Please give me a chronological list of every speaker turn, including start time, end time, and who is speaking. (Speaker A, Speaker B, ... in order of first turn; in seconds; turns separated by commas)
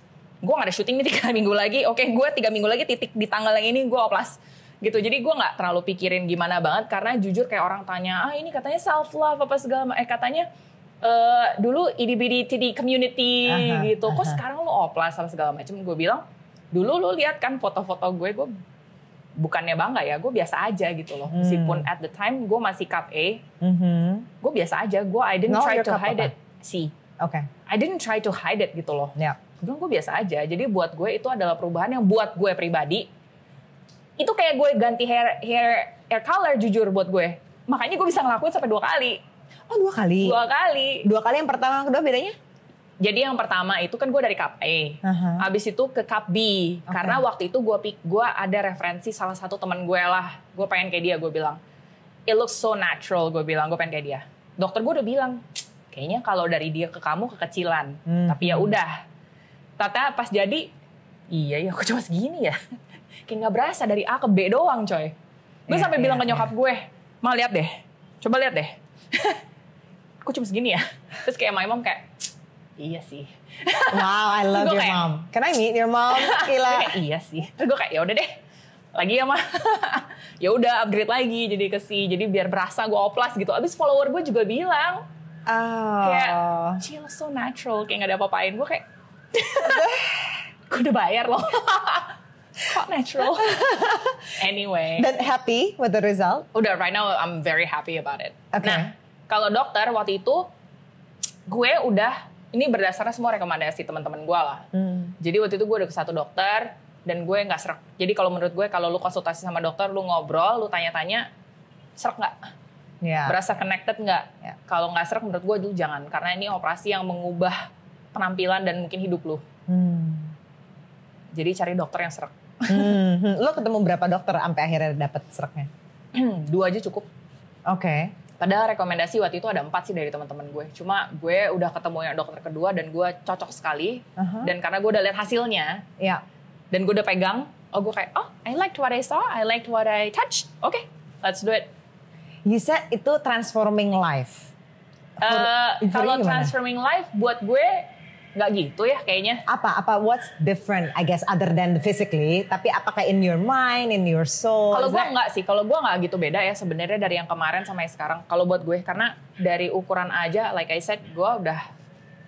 Speaker A: 0.4-10.5, Speaker A: 11.0-18.6, Speaker B: 13.5-14.4, Speaker A: 19.4-23.4, Speaker B: 21.3-21.9, Speaker B: 23.6-24.3, Speaker A: 24.4-26.9, Speaker B: 25.5-26.3, Speaker B: 27.2-27.5, Speaker A: 27.7-33.1, Speaker A: 34.2-39.2, Speaker B: 39.7-40.4, Speaker A: 40.2-41.1, Speaker B: 41.0-42.4, Speaker A: 43.0-51.6, Speaker B: 45.0-45.5, Speaker B: 46.9-47.2, Speaker A: 52.3-59.0, Speaker B: 58.1-58.7, Speaker A: 59.8-60.7, Speaker A: 61.3-62.6, Speaker A: 63.3-65.1, Speaker B: 65.7-66.5, Speaker A: 65.7-69.4, Speaker A: 70.2-72.1, Speaker A: 72.8-75.0, Speaker B: 73.9-77.0, Speaker A: 76.1-78.3, Speaker A: 79.0-85.0, Speaker B: 85.5-86.8, Speaker A: 86.0-90.0, Speaker B: 89.6-90.3, Speaker A: 90.7-93.6, Speaker B: 93.4-94.3, Speaker A: 94.4-95.1, Speaker B: 95.0-96.5, Speaker A: 96.5-100.5, Speaker B: 98.5-98.9, Speaker A: 101.5-104.7, Speaker B: 104.7-105.1, Speaker A: 105.2-111.3, Speaker A: 112.0-112.5, Speaker B: 113.0-113.4, Speaker A: 113.3-119.4, Speaker B: 119.7-120.3, Speaker A: 121.3-123.0, Speaker B: 122.7-125.7, Speaker A: 126.1-127.1, Speaker B: 127.7-128.1, Speaker A: 128.4-135.9, Speaker B: 134.2-134.5, Speaker A: 136.7-141.7, Speaker B: 142.5-144.5, Speaker B: 145.2-146.5, Speaker A: 145.2-149.4, Speaker B: 149.5-155.1, Speaker A: 154.7-161.6